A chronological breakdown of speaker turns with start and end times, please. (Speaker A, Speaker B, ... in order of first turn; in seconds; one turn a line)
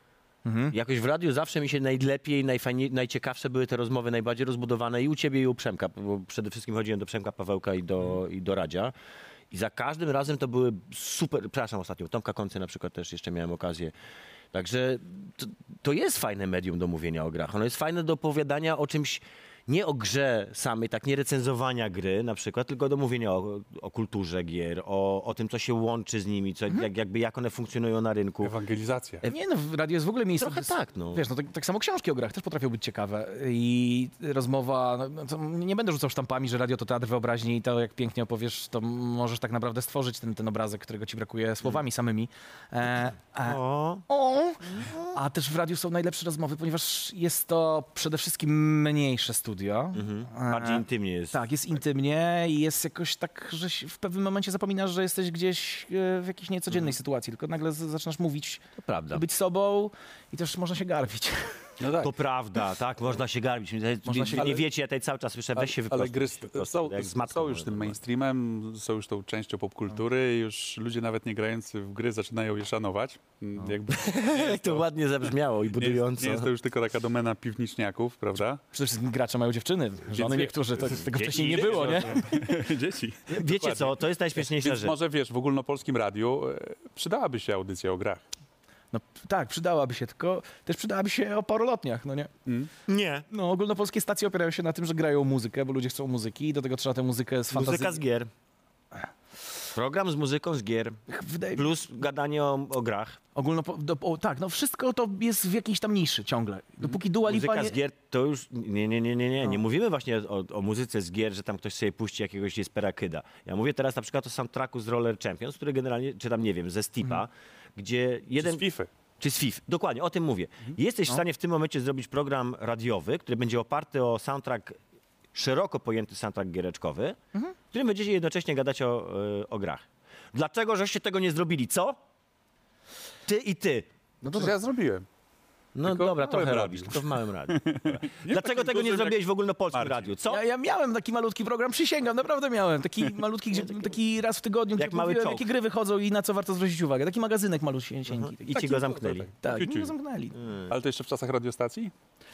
Speaker A: 0.5-0.7
Speaker B: 0.7-8.9
Speaker B: 9.5-13.9
Speaker B: 14.5-28.6
Speaker C: 28.4-29.2
Speaker A: 29.3-61.7
Speaker B: 30.4-31.2
Speaker B: 43.4-44.0
Speaker B: 44.6-45.2
Speaker B: 50.0-51.4
Speaker B: 58.8-59.2
Speaker C: 61.8-62.1
Speaker B: 62.0-68.0
Speaker A: 64.0-64.6
Speaker C: 64.4-64.7
Speaker C: 65.6-74.8
Speaker B: 73.9-76.5
Speaker C: 75.7-78.6
Speaker A: 78.7-82.3
Speaker C: 80.1-80.5
Speaker B: 80.9-82.3
Speaker C: 81.2-88.2
Speaker B: 83.3-85.0
Speaker A: 88.9-92.3
Speaker B: 92.9-93.3
Speaker A: 93.3-98.0
Speaker B: 97.5-98.3
Speaker B: 99.8-101.0
Speaker A: 101.1-101.7
Speaker B: 101.5-103.2
Speaker A: 103.3-107.8
Speaker B: 107.2-118.6
Speaker C: 118.4-118.9
Speaker B: 119.2-124.8
Speaker B: 125.3-127.2
Speaker B: 127.7-132.0
Speaker B: 133.3-133.9
Speaker A: 134.2-134.6
Speaker C: 134.3-135.1
Speaker B: 135.8-140.4
Speaker C: 135.8-139.2
Speaker C: 139.7-140.1
Speaker A: 140.3-148.8
Speaker B: 143.5-143.9
Speaker B: 144.8-145.5
Speaker B: 148.1-149.3
Speaker C: 148.5-149.9
Speaker A: 149.4-150.4
Speaker B: 150.4-150.7
Speaker C: 150.7-151.9